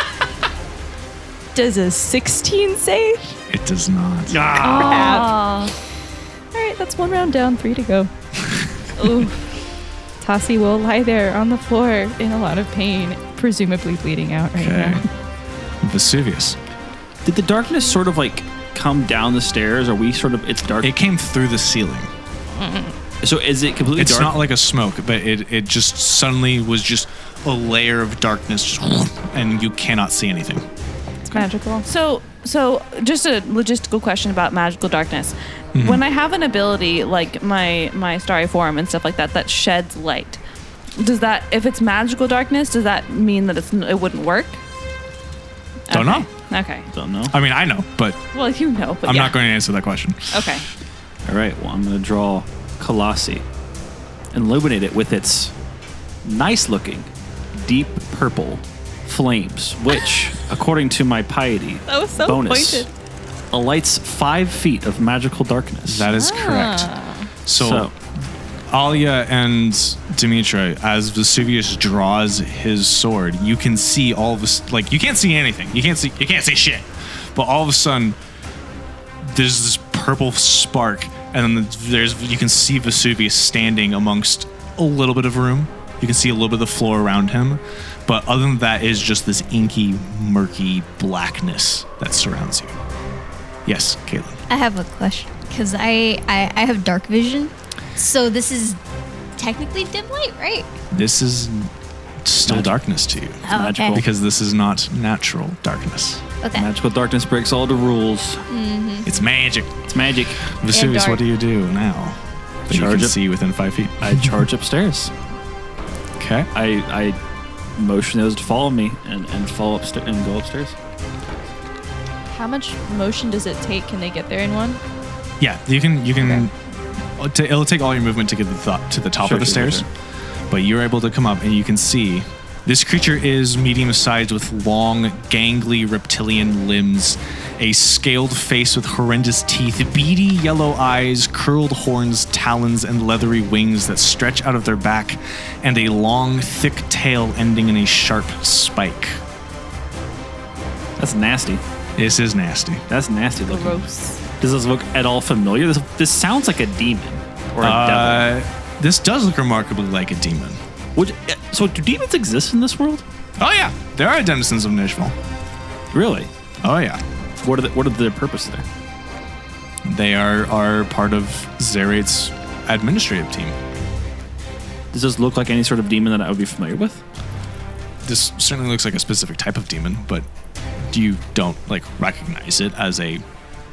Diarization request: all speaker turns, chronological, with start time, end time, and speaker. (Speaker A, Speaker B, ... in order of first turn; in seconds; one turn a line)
Speaker A: 1.5-3.4
Speaker B: 3.5-4.5
Speaker C: 4.3-5.3
Speaker D: 4.5-5.7
Speaker A: 4.6-5.4
Speaker A: 6.5-8.1
Speaker D: 9.0-9.4
Speaker A: 10.2-15.1
Speaker B: 14.5-15.0
Speaker B: 15.8-16.6
Speaker C: 17.2-20.9
Speaker B: 20.8-22.1
Speaker A: 22.6-22.9
Speaker C: 23.2-24.4
Speaker B: 23.9-30.6
Speaker D: 31.3-40.4
Speaker B: 35.7-36.0
Speaker D: 41.0-44.6
Speaker D: 45.9-46.9
Speaker B: 45.9-46.3
Speaker C: 46.9-47.3
Speaker B: 47.3-48.2
Speaker D: 48.3-49.4
Speaker B: 49.0-50.4
Speaker D: 50.3-50.6
Speaker C: 51.2-53.4
Speaker C: 54.3-55.5
Speaker C: 56.2-62.9
Speaker A: 61.9-62.9
Speaker C: 63.5-66.1
Speaker B: 65.9-66.9
Speaker A: 66.1-67.3
Speaker B: 67.4-78.2
Speaker C: 67.5-67.9
Speaker B: 79.2-92.8
Speaker B: 93.7-94.4
Speaker E: 94.5-98.8
Speaker E: 99.3-100.7
Speaker B: 100.9-101.7
Speaker B: 102.2-106.2
Speaker C: 102.5-102.7
Speaker E: 103.4-104.0
Speaker C: 103.5-104.1
Speaker E: 106.4-106.7
Speaker C: 106.5-108.5
Speaker A: 108.5-109.0
Speaker B: 109.0-109.8
Speaker C: 109.9-110.4
Speaker B: 110.5-112.2
Speaker A: 110.7-111.2
Speaker C: 112.7-113.2
Speaker B: 112.7-114.3
Speaker C: 114.0-115.1
Speaker B: 116.2-116.5
Speaker C: 116.5-117.2
Speaker C: 117.8-120.8
Speaker A: 122.3-124.8
Speaker B: 125.4-126.5
Speaker B: 127.2-129.8
Speaker C: 129.2-129.8
Speaker B: 130.5-149.2
Speaker C: 151.0-151.6
Speaker B: 152.0-152.8
Speaker C: 152.9-153.9
Speaker A: 153.5-154.2
Speaker C: 154.4-158.3
Speaker B: 157.6-160.6
Speaker C: 160.9-163.0
Speaker B: 163.4-165.1
Speaker C: 165.9-166.3
Speaker B: 166.6-167.0
Speaker C: 167.4-168.6
Speaker B: 169.8-173.6
Speaker C: 174.9-177.0
Speaker B: 178.0-180.2
Speaker B: 180.8-183.2